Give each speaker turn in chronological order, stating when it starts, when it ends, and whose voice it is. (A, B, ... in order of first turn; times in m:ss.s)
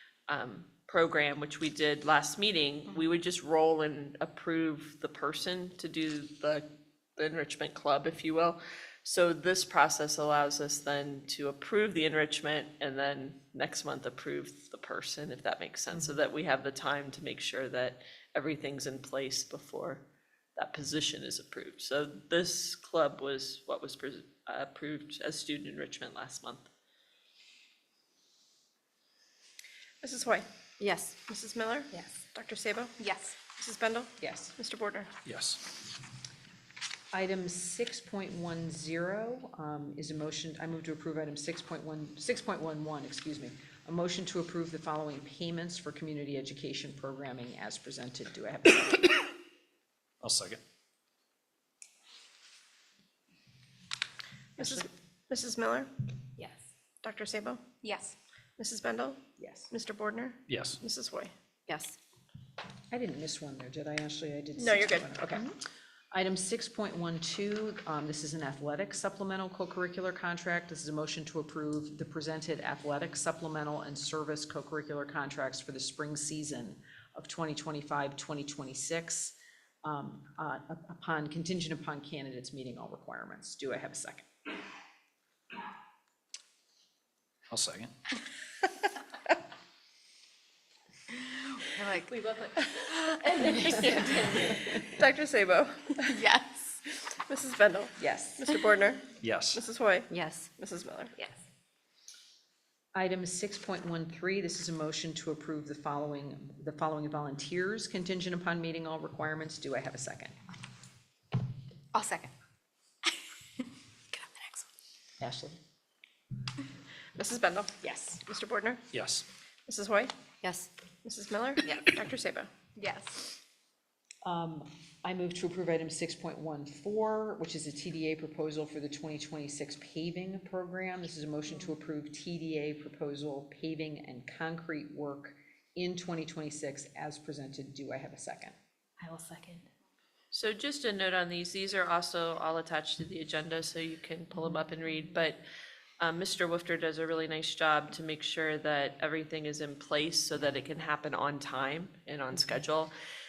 0:00.3-0:06.6 A
0:07.2-0:20.0 A
0:15.9-0:16.2 B
0:20.6-0:26.7 A
0:30.0-0:30.5 C
0:30.8-0:31.1 D
0:31.3-0:33.0 C
0:33.0-0:33.4 D
0:33.5-0:35.1 C
0:34.2-0:34.5 B
0:35.2-0:35.6 E
0:37.1-0:49.3 B
0:50.2-0:50.6 E
0:54.6-0:55.9 C
0:54.6-0:54.8 B
0:57.0-0:57.7 C
0:57.8-0:58.2 D
0:58.6-1:01.3 C
0:59.4-0:59.7 B
1:00.5-1:00.8 E
1:01.7-1:02.0 D
1:02.9-1:05.5 B
1:04.6-1:05.4 C
1:06.1-1:24.3 B
1:27.5-1:27.9 E
1:31.5-1:34.6 D
1:33.5-1:36.1 C
1:36.0-1:36.8 D
1:37.1-1:41.1 C
1:38.0-1:38.4 B
1:39.2-1:39.6 E
1:40.1-1:40.4 D
1:43.0-1:50.3 B
1:51.9-1:52.3 D
1:54.1-1:54.6 D
1:55.2-1:55.6 B
1:57.2-1:58.8 C
1:57.8-1:58.2 B
1:58.9-1:59.2 E
1:59.7-2:00.1 C
2:00.4-2:00.7 D
2:01.0-2:02.5 C
2:02.8-2:03.3 D
2:04.2-2:18.5 B
2:19.0-2:19.7 D
2:20.3-2:25.4 A
2:26.0-2:32.9 A